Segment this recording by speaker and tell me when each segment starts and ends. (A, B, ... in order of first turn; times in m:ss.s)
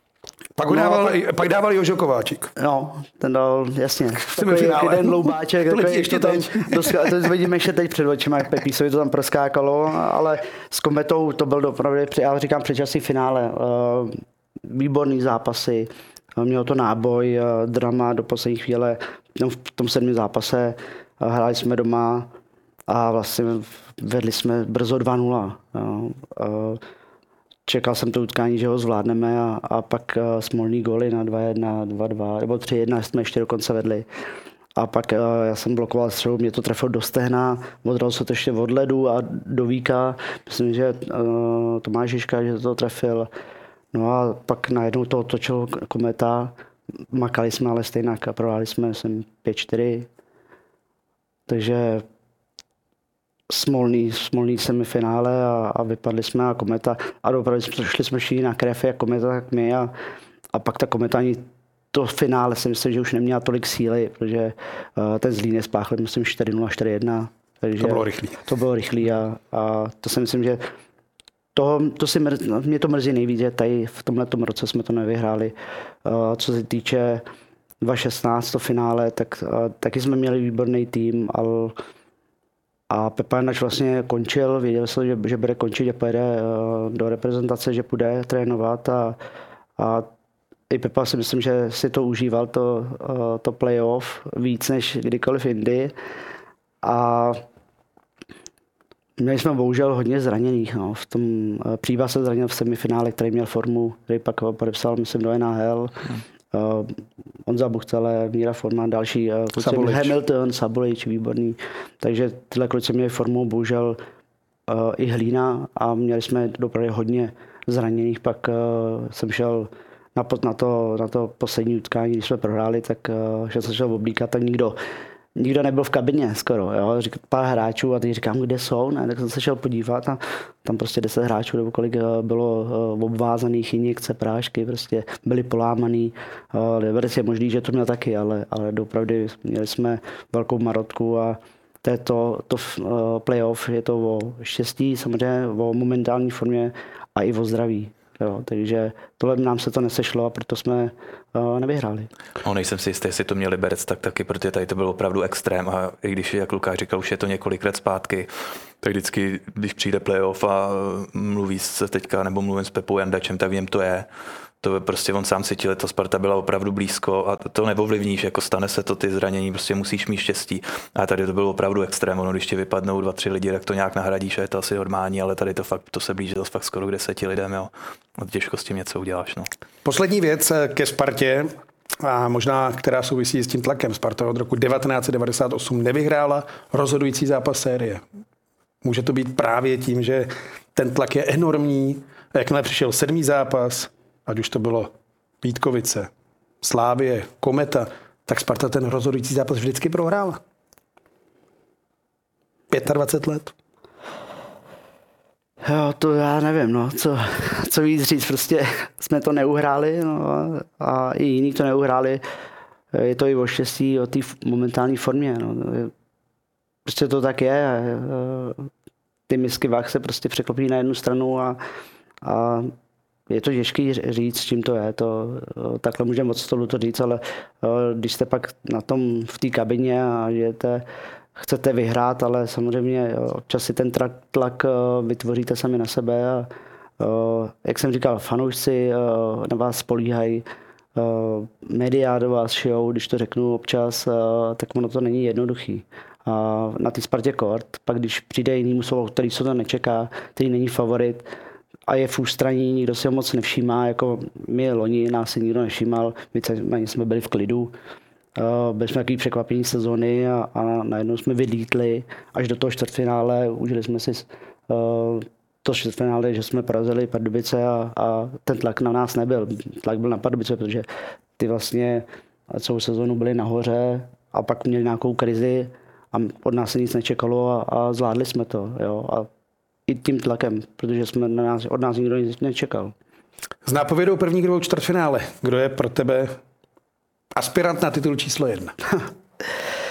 0:00.6-0:02.5 A
0:00.7-0:01.2 B
0:02.6-0:22.3 B
0:04.3-0:07.0 A
0:22.9-0:26.8 B
0:27.7-0:34.0 B
0:34.8-0:43.3 B
0:43.9-0:46.5 B
0:47.1-0:50.1 B
0:51.5-0:52.0 B
0:53.5-0:59.9 B
1:00.5-1:10.6 B
1:07.8-1:08.4 A
1:11.5-1:17.2 B
1:17.8-1:21.8 B
1:22.9-1:29.2 B
1:29.8-1:30.1 B
1:30.7-1:35.9 B
1:36.8-1:37.4 B
1:39.2-1:54.0 B
1:49.6-1:50.1 A
1:54.7-2:04.8 B
2:05.4-2:32.1 B
2:32.4-2:38.3 C
2:38.8-2:44.1 C
2:44.6-2:59.5 C
2:59.8-3:08.0 A
3:08.8-3:16.1 A
3:16.6-3:20.4 A
3:22.7-3:23.5 A
3:25.6-3:32.2 B
3:32.9-3:35.9 B
3:36.8-3:38.7 B
3:39.3-3:41.6 B
3:42.2-3:42.7 B
3:43.3-3:50.8 B
3:51.4-4:00.4 B
4:01.0-4:11.3 B
4:11.9-4:17.7 B
4:18.4-4:30.8 B
4:31.4-4:39.3 B
4:39.9-4:42.9 B
4:43.6-4:46.4 A
4:47.3-4:48.8 A